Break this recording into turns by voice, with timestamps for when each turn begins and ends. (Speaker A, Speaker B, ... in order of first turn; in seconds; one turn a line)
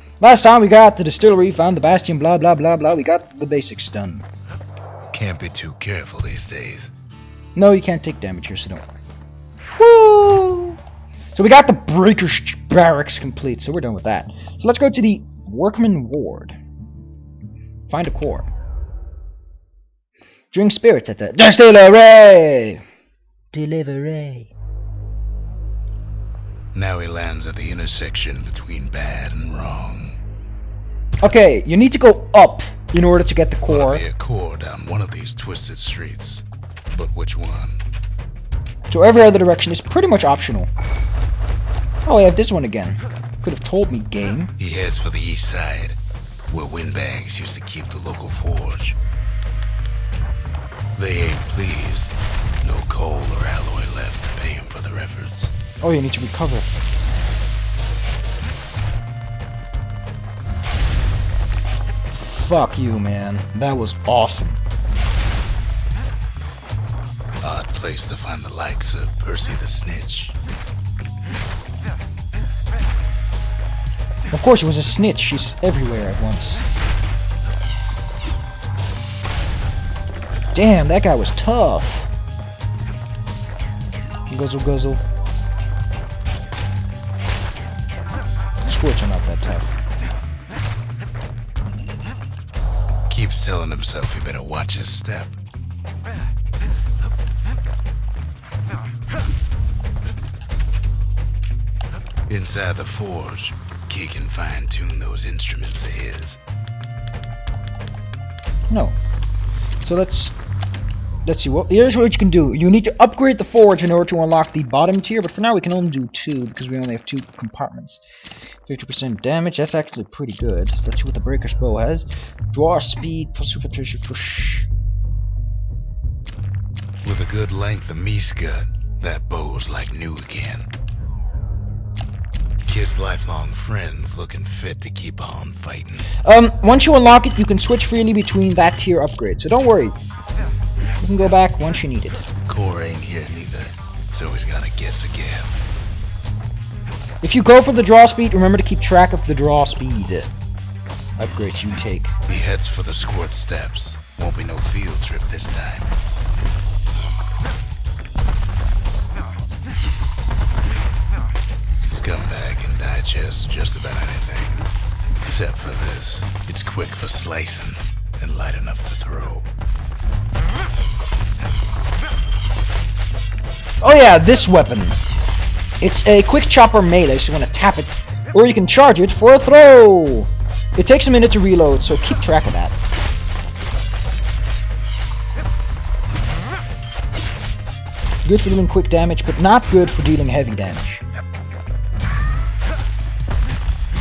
Speaker A: 0.2-4.3
Speaker B: 5.1-6.9
Speaker A: 7.6-8.9
Speaker A: 9.8-10.8
Speaker A: 11.3-16.6
Speaker A: 17.9-18.5
Speaker A: 20.5-22.8
Speaker A: 23.5-24.5
Speaker B: 26.7-30.2
Speaker A: 31.2-34.0
Speaker B: 33.7-37.8
Speaker A: 38.9-40.7
Speaker A: 42.0-44.5
Speaker B: 44.6-46.0
Speaker B: 46.5-49.0
Speaker B: 51.0-55.5
Speaker A: 55.8-56.7
Speaker A: 62.3-64.6
Speaker B: 67.4-70.4
Speaker A: 74.3-76.6
Speaker A: 80.5-82.1
Speaker A: 84.3-85.0
Speaker A: 88.6-89.7
Speaker B: 93.1-95.4
Speaker B: 102.3-106.4
Speaker A: 108.7-109.0
Speaker A: 109.8-110.3
Speaker A: 111.2-118.0
Speaker A: 118.7-124.7
Speaker B: 127.0-130.7
Speaker B: 132.6-136.1
Speaker A: 136.2-140.0
Speaker A: 141.0-142.3
Speaker B: 142.5-145.6
Speaker A: 147.2-150.3
Speaker A: 151.2-152.1
Speaker B: 152.3-155.9
Speaker B: 161.9-164.7
Speaker B: 165.2-169.5
Speaker A: 173.8-175.0
Speaker A: 175.8-182.8
Speaker A: 188.2-191.0